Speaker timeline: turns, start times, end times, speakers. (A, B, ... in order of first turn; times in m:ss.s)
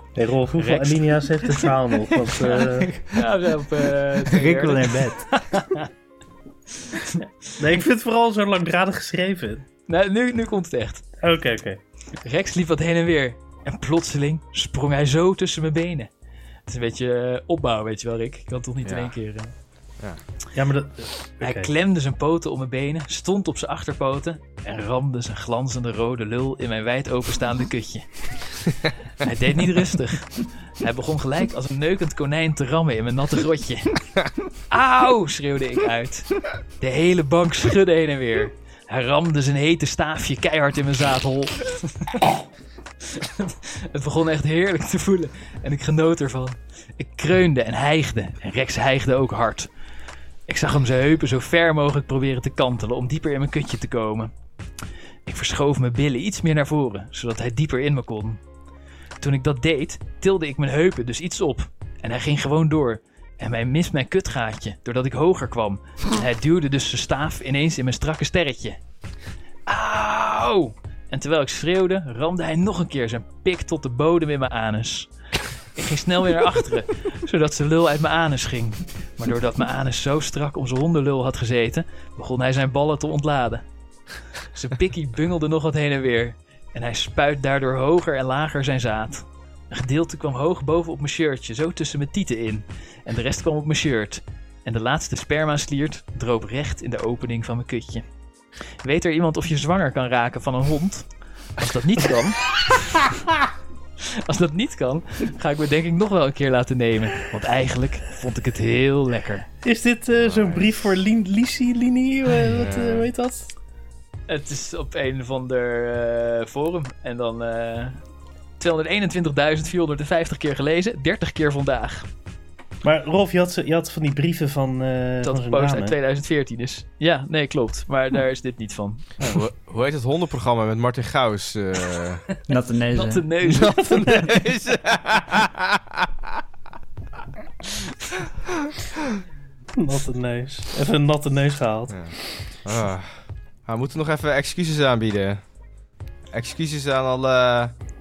0:00.2-0:02.9 A
0:00.6-0:01.7 B
0:02.3-0:05.8 B
0:04.2-0:05.4 C
0:07.6-0:09.6 A
0:09.9-0:11.1 B
0:11.2-0:11.8 A
0:12.2-0:16.1 B
0:16.7-0:19.5 B
0:18.8-0:19.1 D
0:20.5-0:21.7 A
0:21.4-0:28.7 B
0:29.2-0:34.0 B
0:34.7-0:42.2 B
0:43.0-0:49.7 B
0:50.5-0:54.3 B
0:55.3-0:58.4 B
0:59.2-1:08.8 B
1:09.7-1:15.1 B
1:15.8-1:23.6 B
1:24.5-1:38.0 B
1:38.8-1:43.1 B
1:44.0-1:49.5 B
1:49.6-1:53.5 A
1:50.2-1:51.0 D
1:52.5-1:53.1 D
1:54.3-1:58.0 B
1:58.6-2:02.1 B
2:02.8-2:06.0 A
2:05.2-2:09.1 B
2:09.2-2:12.3 D
2:12.5-2:13.3 C
2:12.9-2:14.1 B
2:13.4-2:16.4 D
2:19.8-2:22.0 A
2:21.9-2:25.4 D
2:26.3-2:27.8 D